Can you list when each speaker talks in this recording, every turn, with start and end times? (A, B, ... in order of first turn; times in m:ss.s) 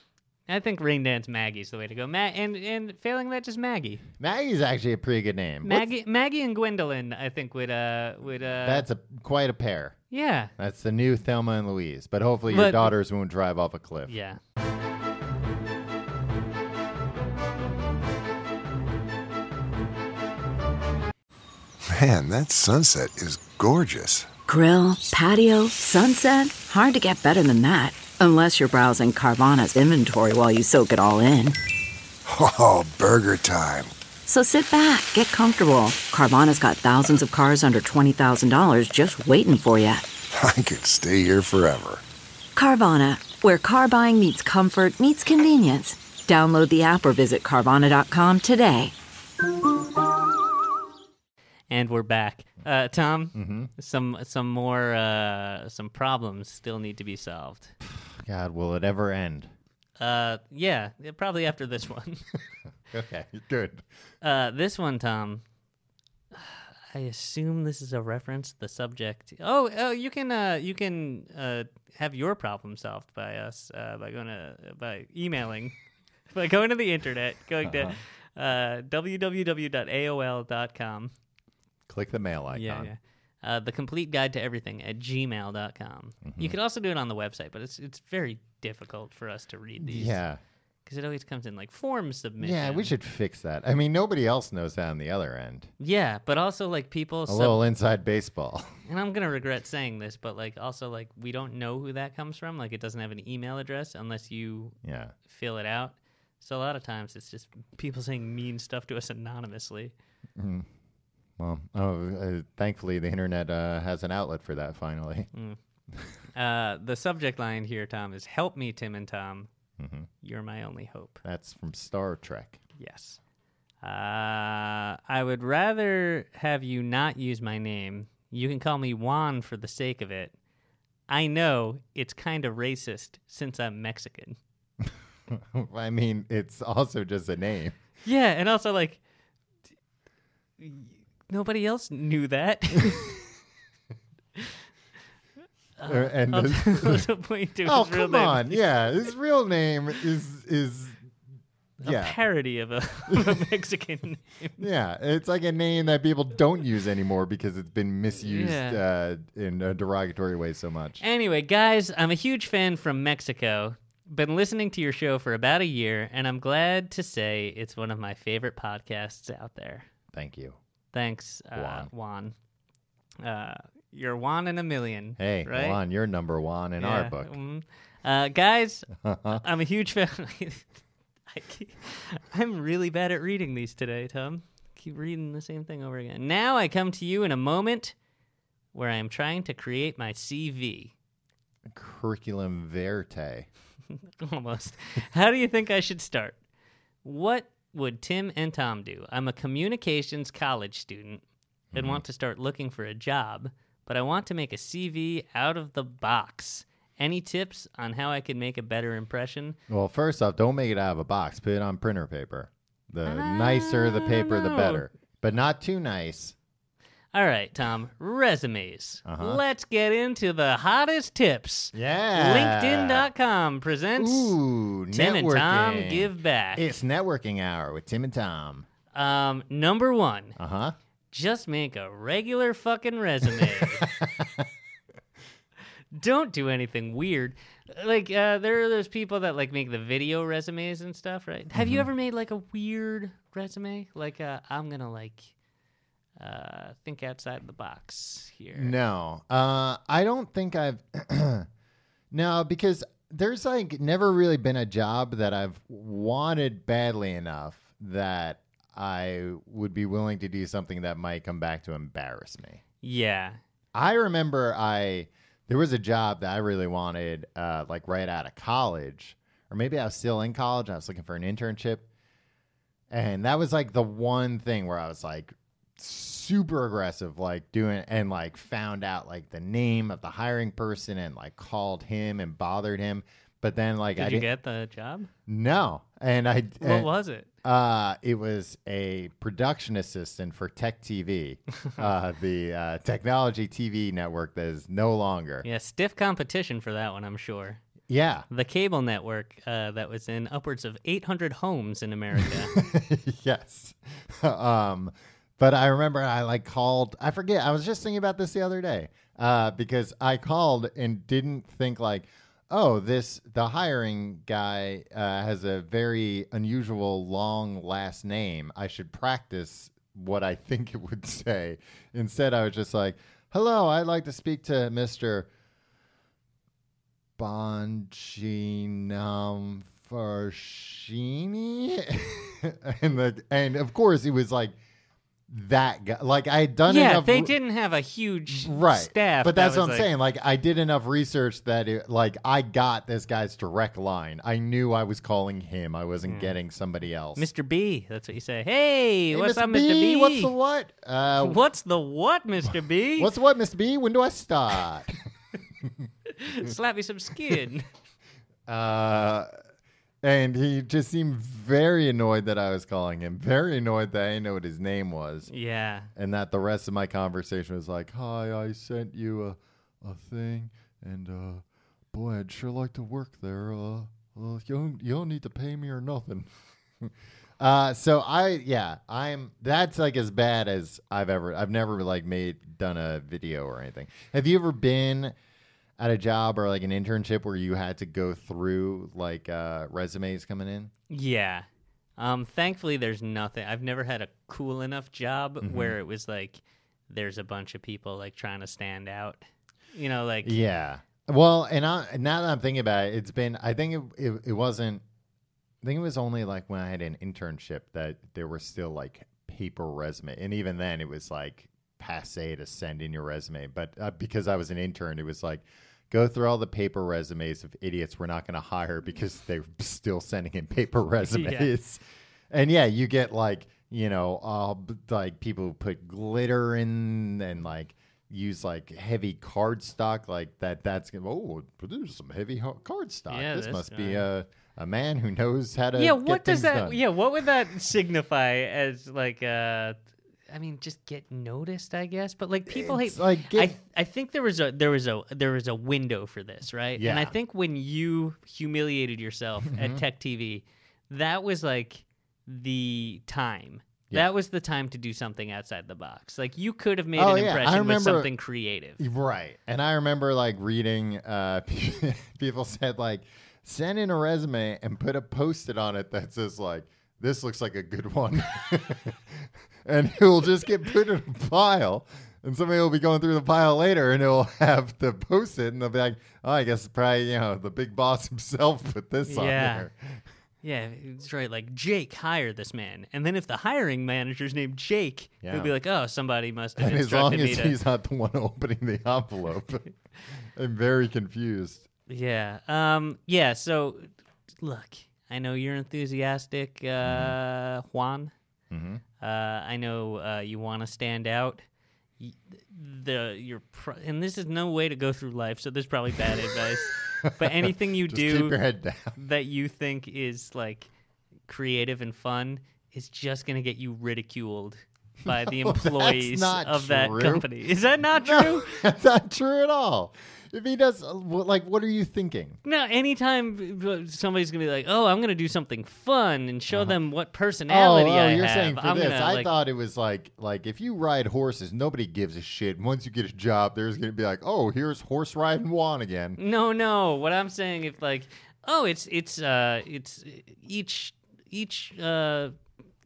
0:00.5-0:04.0 A
0:04.2-0:05.9 B
0:05.6-0:08.9 A
0:08.6-0:10.0 B
0:10.1-0:10.5 A
0:10.6-0:14.1 B
0:12.5-0:12.9 A
0:14.1-0:14.4 A
0:21.9-0:24.3 C
0:24.5-0:31.6 D
0:32.2-0:33.9 C
0:34.2-0:40.0 D
0:40.3-0:42.0 C
0:42.6-0:48.9 D
0:51.7-0:57.7 A
0:53.3-0:53.7 B
0:57.9-0:59.5 B
1:00.0-1:02.2 A
1:02.9-1:03.8 B
1:04.2-1:05.4 A
1:06.3-1:15.7 A
1:16.3-1:21.1 A
1:17.6-1:17.9 B
1:21.9-1:22.9 B
1:22.5-1:30.2 A
1:26.2-1:26.5 B
1:29.8-1:30.4 B
1:30.8-1:32.9 A
1:32.4-1:35.7 B
1:35.8-1:37.6 A
1:37.3-1:38.7 B
1:38.8-1:44.7 A
1:44.8-1:45.1 B
1:45.3-1:49.9 A
1:50.4-1:50.7 B
1:51.4-1:55.3 B
1:56.3-1:59.5 A
1:59.8-2:00.1 B
2:00.2-2:01.2 A
2:01.2-2:02.6 B
2:02.8-2:03.2 A
2:03.8-2:10.3 A
2:11.1-2:14.4 A
2:14.8-2:17.8 B
2:18.0-2:19.0 A
2:20.6-2:23.1 A
2:25.8-2:28.6 A
2:25.8-2:27.1 B
2:27.6-2:31.0 B
2:31.8-2:34.6 A
2:31.8-2:32.2 B
2:33.1-2:33.4 B
2:34.6-2:41.0 B
2:38.2-2:38.8 A
2:41.0-2:49.9 A
2:50.1-2:50.6 B
2:50.9-2:52.3 A
2:51.5-2:51.9 B
2:53.2-2:55.8 A
2:55.2-2:57.3 B
2:56.8-3:00.7 A
2:59.0-2:59.4 B
3:01.3-3:07.9 A
3:08.7-3:10.9 A
3:11.7-3:13.5 B
3:14.2-3:16.4 A
3:17.0-3:21.2 A
3:21.7-3:22.0 B
3:21.7-3:29.6 A
3:29.7-3:36.3 B
3:33.0-3:34.9 A
3:37.1-3:44.4 A
3:39.0-3:39.4 B
3:41.7-3:43.1 B
3:44.0-3:48.6 B
3:44.9-3:46.6 A
3:48.9-3:50.4 A
3:50.4-3:50.7 B
3:51.1-3:53.9 A
3:53.8-3:54.4 B
3:55.9-4:05.3 A
4:01.5-4:01.9 B
4:06.2-4:08.7 A
4:08.5-4:11.5 B
4:12.1-4:22.6 B
4:22.8-4:23.4 A
4:23.7-4:31.8 B
4:32.9-4:44.3 B
4:44.0-4:45.1 A
4:45.3-4:46.9 B
4:46.6-4:47.3 A
4:47.4-4:55.4 B
4:55.4-4:57.6 A
4:57.9-4:58.3 B
4:58.3-5:02.5 A
5:02.2-5:25.3 B
5:27.2-5:34.6 B
5:35.3-5:37.3 B
5:36.6-5:39.9 A
5:38.3-5:47.3 B
5:46.0-5:46.3 A
5:47.2-5:50.3 A
5:49.1-5:51.4 B
5:51.2-5:53.1 A
5:53.0-5:54.9 B
5:56.1-5:57.7 A
5:58.5-5:59.3 B
6:00.0-6:05.3 B
6:05.3-6:05.9 A
6:06.0-6:16.3 B
6:16.8-6:25.1 B
6:25.8-6:30.7 B
6:30.9-6:31.4 A
6:32.0-6:40.4 A
6:35.4-6:35.8 B
6:40.2-6:44.8 B
6:45.6-7:16.8 B
7:01.1-7:01.5 A
7:13.1-7:14.0 A
7:15.7-7:19.8 A
7:20.3-7:38.8 A
7:22.5-7:23.6 B
7:26.8-7:27.1 B
7:29.4-7:29.8 B
7:37.0-7:38.1 B
7:38.8-8:00.0 B
7:59.0-7:59.7 A
8:00.4-8:07.6 A
8:05.2-8:05.5 B
8:06.6-8:09.7 B
8:10.4-8:11.6 B
8:11.9-8:13.9 A
8:14.4-8:18.1 A
8:16.8-8:17.2 B
8:18.5-8:18.8 B
8:19.0-8:21.4 A
8:22.0-8:28.4 A
8:27.0-8:29.0 B
8:29.0-8:30.7 A
8:31.3-8:38.6 A
8:35.0-8:37.3 B
8:38.0-8:42.4 B
8:42.4-8:49.3 A
8:46.5-8:46.8 B
8:47.5-8:56.2 B
8:56.2-9:02.3 A